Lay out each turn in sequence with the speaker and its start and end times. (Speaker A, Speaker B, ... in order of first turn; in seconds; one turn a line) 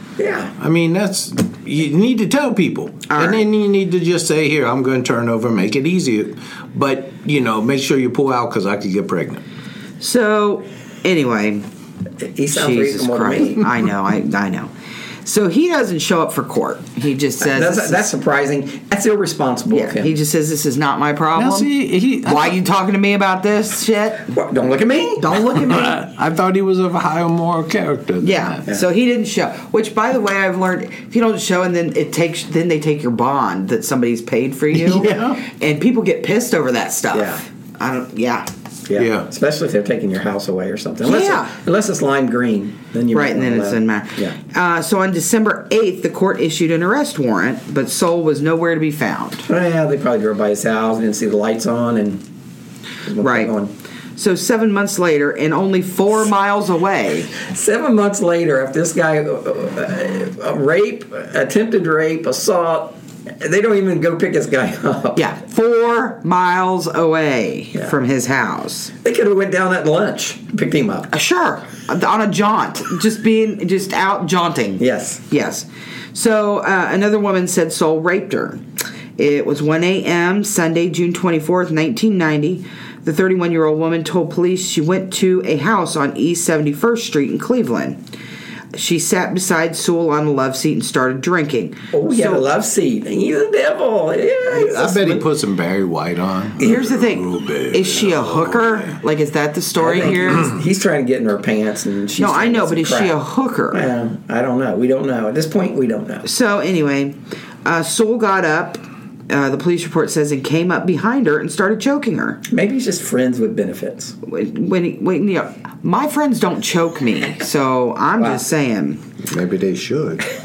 Speaker A: 0.2-0.5
Speaker B: 0.6-9.4
Speaker C: 3.1-3.4
Speaker C: 10.0-11.6
Speaker A: 12.2-13.6
Speaker C: 12.5-14.7
Speaker C: 15.2-18.1
Speaker A: 17.4-20.1
Speaker C: 19.7-21.7
Speaker B: 21.3-22.6
Speaker C: 22.2-24.3
Speaker A: 24.3-25.2
Speaker C: 25.2-26.0
Speaker B: 25.4-28.6
Speaker C: 28.2-38.5
Speaker B: 34.7-35.4
Speaker A: 37.1-37.4
Speaker A: 38.9-44.4
Speaker B: 38.9-39.3
Speaker C: 41.0-41.5
Speaker C: 43.1-49.5
Speaker A: 49.5-52.2
Speaker A: 53.0-53.7
Speaker C: 53.2-53.5
Speaker C: 54.2-57.3
Speaker A: 57.4-65.2
Speaker C: 65.2-68.9
Speaker A: 69.0-71.1
Speaker C: 71.1-78.6
Speaker A: 74.8-75.2
Speaker C: 79.2-88.0
Speaker C: 88.7-92.4
Speaker A: 91.9-95.3
Speaker B: 94.5-99.0
Speaker C: 96.6-100.5
Speaker A: 99.8-103.2
Speaker C: 102.2-103.8
Speaker A: 103.7-106.2
Speaker C: 106.2-112.4
Speaker A: 112.5-114.1
Speaker C: 114.2-119.0
Speaker B: 119.2-120.2